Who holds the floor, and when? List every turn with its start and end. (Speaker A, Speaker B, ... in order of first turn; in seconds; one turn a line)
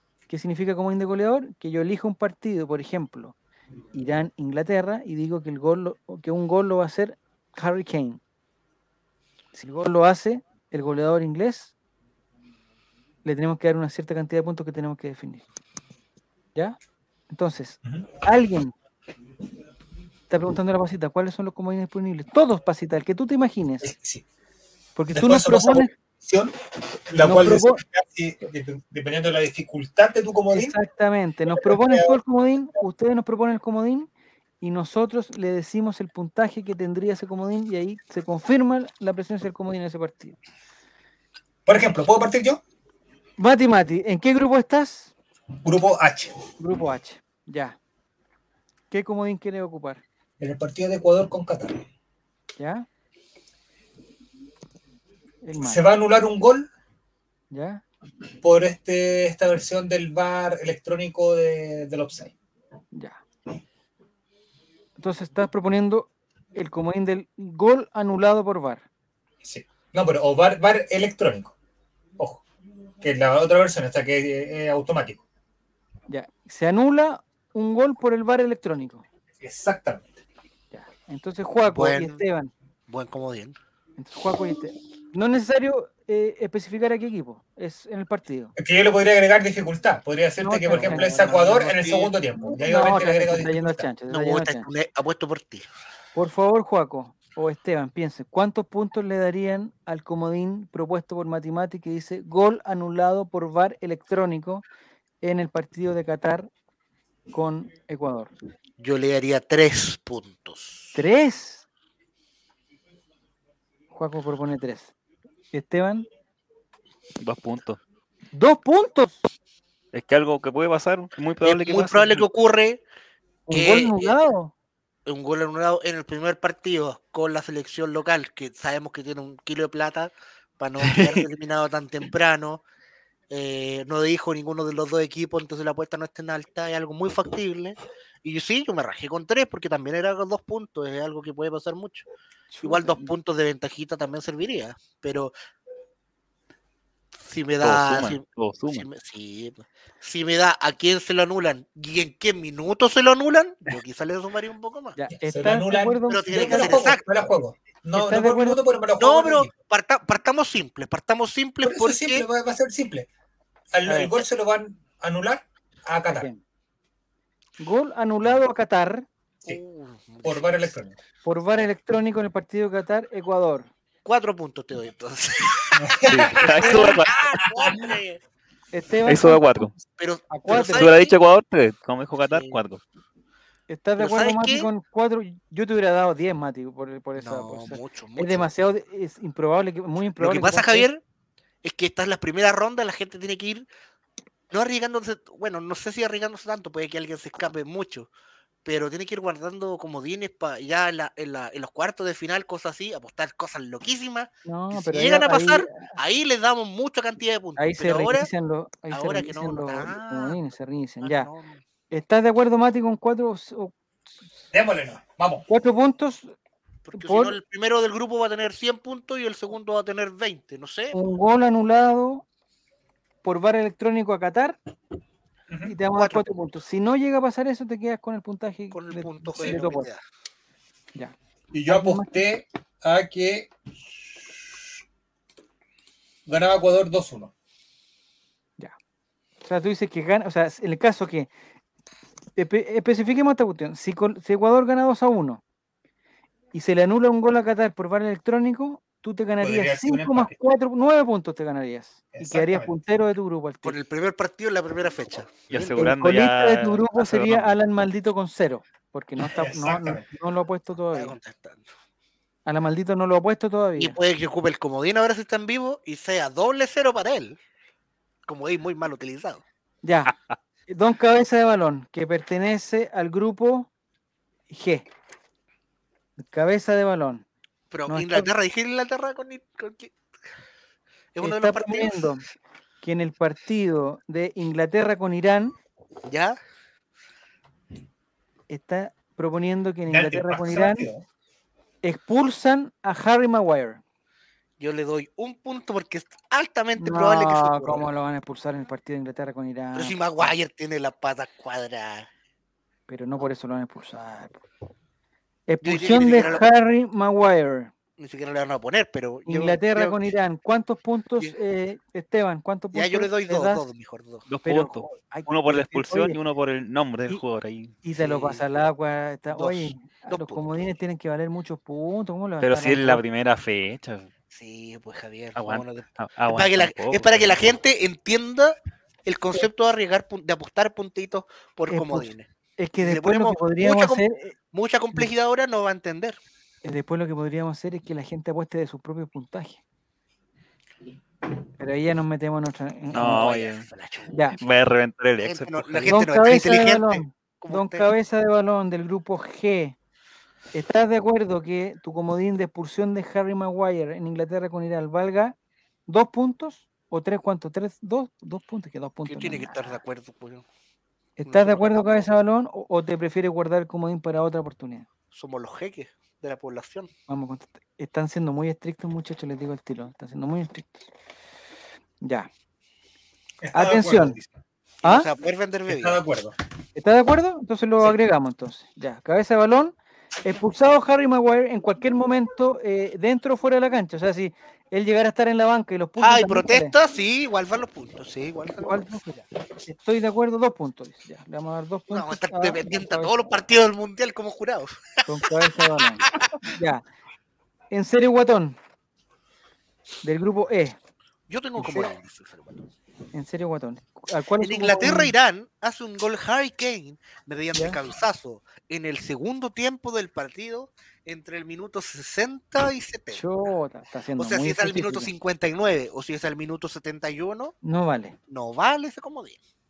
Speaker A: 0.3-3.4
Speaker A: 3.9-8.2
Speaker A: 9.5-11.7
Speaker A: 13.2-15.5
Speaker A: 17.3-18.7
Speaker A: 20.3-23.9
Speaker B: 23.8-24.2
Speaker A: 25.0-25.9
Speaker B: 25.1-26.6
Speaker B: 27.1-30.8
Speaker A: 27.2-27.8
Speaker A: 30.5-34.1
Speaker B: 31.5-32.2
Speaker A: 34.6-40.4
Speaker B: 41.7-42.6
Speaker A: 43.4-45.1
Speaker B: 45.6-46.4
Speaker A: 46.6-47.8
Speaker A: 48.9-50.0
Speaker B: 50.4-51.8
Speaker A: 52.6-52.9
Speaker A: 55.4-55.9
Speaker B: 55.5-56.7
Speaker A: 57.5-57.8
Speaker B: 58.4-62.3
Speaker A: 62.9-63.2
Speaker A: 65.0-68.8
Speaker B: 69.4-71.5
Speaker B: 72.2-72.4
Speaker B: 73.0-75.2
Speaker A: 76.1-79.0
Speaker B: 79.4-80.2
Speaker A: 80.7-82.5
Speaker C: 81.6-82.2
Speaker C: 82.9-83.6
Speaker A: 84.0-88.5
Speaker B: 88.6-93.9
Speaker A: 90.4-91.5
Speaker C: 90.7-92.1
Speaker A: 92.5-94.7
Speaker C: 94.1-95.7
Speaker A: 96.2-104.7
Speaker A: 105.2-106.5
Speaker A: 107.3-108.3
Speaker C: 108.8-111.0
Speaker A: 110.9-111.7
Speaker A: 113.9-114.9
Speaker A: 115.5-116.1
Speaker D: 117.2-117.8
Speaker A: 118.3-119.2
Speaker D: 119.9-122.3
Speaker C: 121.4-122.8
Speaker A: 123.5-124.5
Speaker C: 123.5-124.2
Speaker C: 125.1-132.6
Speaker D: 130.8-131.2
Speaker C: 133.3-142.1
Speaker A: 142.5-143.1
Speaker C: 142.6-145.3
Speaker C: 147.2-155.0
Speaker D: 147.6-148.9
Speaker A: 155.0-156.8
Speaker B: 155.2-159.5
Speaker C: 156.1-157.0
Speaker A: 157.9-158.6
Speaker C: 159.0-162.3
Speaker B: 161.6-163.1
Speaker B: 163.7-166.3
Speaker A: 163.9-164.1
Speaker A: 166.1-166.4
Speaker A: 167.6-169.1
Speaker C: 169.5-170.8
Speaker B: 170.2-170.9
Speaker A: 171.2-173.7
Speaker C: 174.1-178.2
Speaker B: 175.8-176.7
Speaker D: 176.1-177.4
Speaker A: 176.6-177.0
Speaker B: 177.6-177.9
Speaker A: 178.7-180.9
Speaker D: 179.1-179.7
Speaker C: 180.0-181.2
Speaker D: 180.5-182.8
Speaker C: 182.3-182.6
Speaker A: 183.7-190.9
Speaker C: 184.0-184.7
Speaker C: 187.2-188.5
Speaker C: 190.2-191.0
Speaker C: 191.6-193.7
Speaker C: 194.5-198.1
Speaker C: 198.7-208.3
Speaker A: 204.5-205.9
Speaker A: 207.6-211.3
Speaker C: 208.9-210.4
Speaker C: 211.0-211.6
Speaker A: 211.9-213.7
Speaker B: 214.5-215.5
Speaker A: 215.5-216.4
Speaker C: 216.9-221.0
Speaker A: 216.9-217.4
Speaker A: 220.9-222.2
Speaker A: 223.2-224.6
Speaker A: 225.7-229.9
Speaker C: 225.9-226.3
Speaker C: 228.7-230.0
Speaker B: 231.5-233.5
Speaker A: 231.7-232.2
Speaker B: 236.3-237.3
Speaker A: 239.4-241.3
Speaker A: 242.4-245.4
Speaker A: 246.5-253.8
Speaker B: 249.4-250.3
Speaker B: 252.1-252.7
Speaker C: 253.6-255.9
Speaker D: 255.5-257.6
Speaker A: 255.8-261.2
Speaker B: 259.2-260.0
Speaker C: 260.9-261.7
Speaker A: 262.5-264.0
Speaker C: 263.8-267.4
Speaker C: 268.3-269.4
Speaker A: 269.8-270.1
Speaker A: 270.7-273.7
Speaker A: 274.5-274.9
Speaker A: 276.2-277.2
Speaker C: 277.7-279.9
Speaker A: 277.9-278.3
Speaker C: 281.1-282.1
Speaker A: 281.2-282.2
Speaker A: 282.8-285.6
Speaker C: 286.1-286.4
Speaker A: 288.5-290.9
Speaker B: 289.9-291.1
Speaker A: 291.8-293.8
Speaker C: 294.6-297.9
Speaker A: 296.8-300.0
Speaker C: 299.8-302.1
Speaker A: 302.9-304.4
Speaker A: 305.5-307.7
Speaker C: 305.6-306.5
Speaker C: 308.0-310.1
Speaker A: 309.3-313.6
Speaker C: 312.7-314.3
Speaker D: 314.3-317.8
Speaker A: 314.4-316.2
Speaker A: 317.8-323.0
Speaker C: 318.0-318.4
Speaker C: 319.3-320.4
Speaker D: 322.4-324.1
Speaker C: 324.3-332.3
Speaker D: 325.4-327.6
Speaker A: 331.7-334.4
Speaker C: 332.8-336.2
Speaker A: 336.6-339.6
Speaker A: 341.6-343.2
Speaker C: 342.9-344.6
Speaker D: 342.9-343.7
Speaker A: 344.1-344.4
Speaker D: 344.4-346.0
Speaker C: 345.2-347.9
Speaker A: 345.9-349.8
Speaker A: 350.5-355.4
Speaker A: 355.9-359.8
Speaker C: 359.1-360.4
Speaker A: 361.2-364.9
Speaker C: 361.3-362.1
Speaker C: 365.1-366.9
Speaker A: 367.1-370.9
Speaker A: 372.0-372.3
Speaker B: 373.4-374.3
Speaker A: 373.5-374.2
Speaker C: 374.8-376.0
Speaker A: 374.8-375.1
Speaker B: 375.7-376.4
Speaker A: 376.8-386.8
Speaker C: 386.0-389.0
Speaker A: 388.6-393.1
Speaker C: 391.9-396.4
Speaker A: 395.1-396.8
Speaker A: 397.7-398.6
Speaker A: 400.0-400.8
Speaker C: 401.3-402.6
Speaker A: 401.6-401.9
Speaker A: 403.1-405.1
Speaker C: 404.4-413.3
Speaker A: 407.5-407.8
Speaker A: 413.1-415.1
Speaker C: 414.2-417.6
Speaker A: 417.6-418.2
Speaker C: 418.3-419.4